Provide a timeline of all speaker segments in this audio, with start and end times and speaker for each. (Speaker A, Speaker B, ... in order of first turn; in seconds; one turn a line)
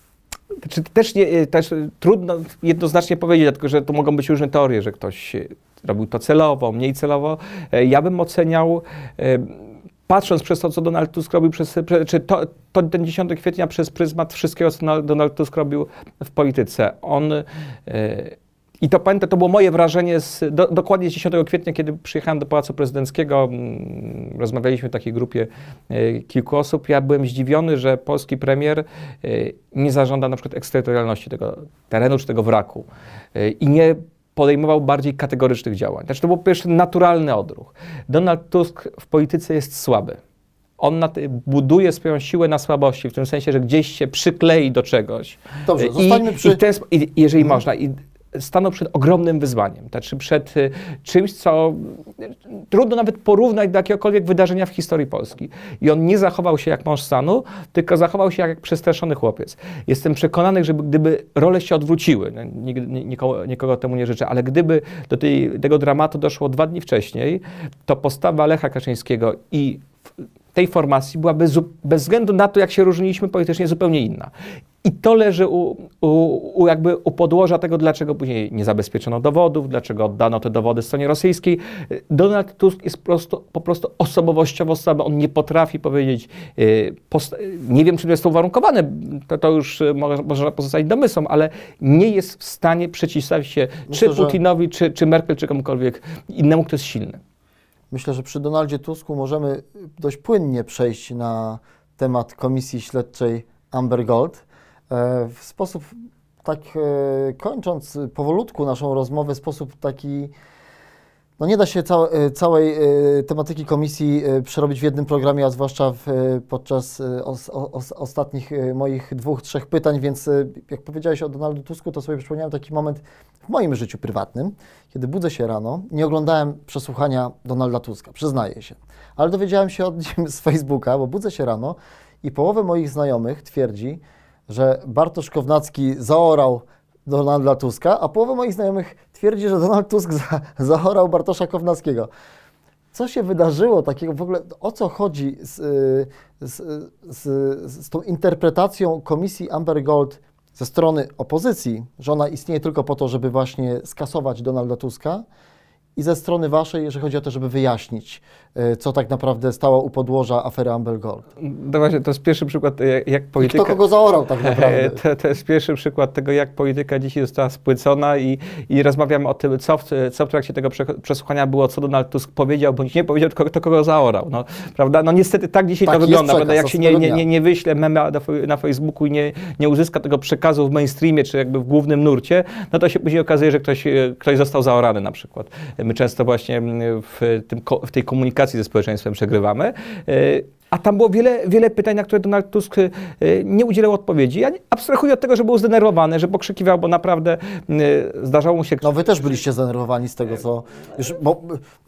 Speaker A: 0.6-40.2
Speaker A: 40.8-69.9
Speaker B: 45.6-46.6
Speaker A: 70.5-74.3
Speaker A: 74.8-97.2
Speaker B: 93.9-94.4
Speaker B: 97.9-110.3
Speaker B: 111.4-142.1
Speaker B: 142.9-155.2
Speaker B: 155.9-161.2
Speaker A: 161.4-163.8
Speaker B: 163.4-165.0
Speaker A: 164.4-199.4
Speaker B: 175.8-177.2
Speaker B: 198.8-201.6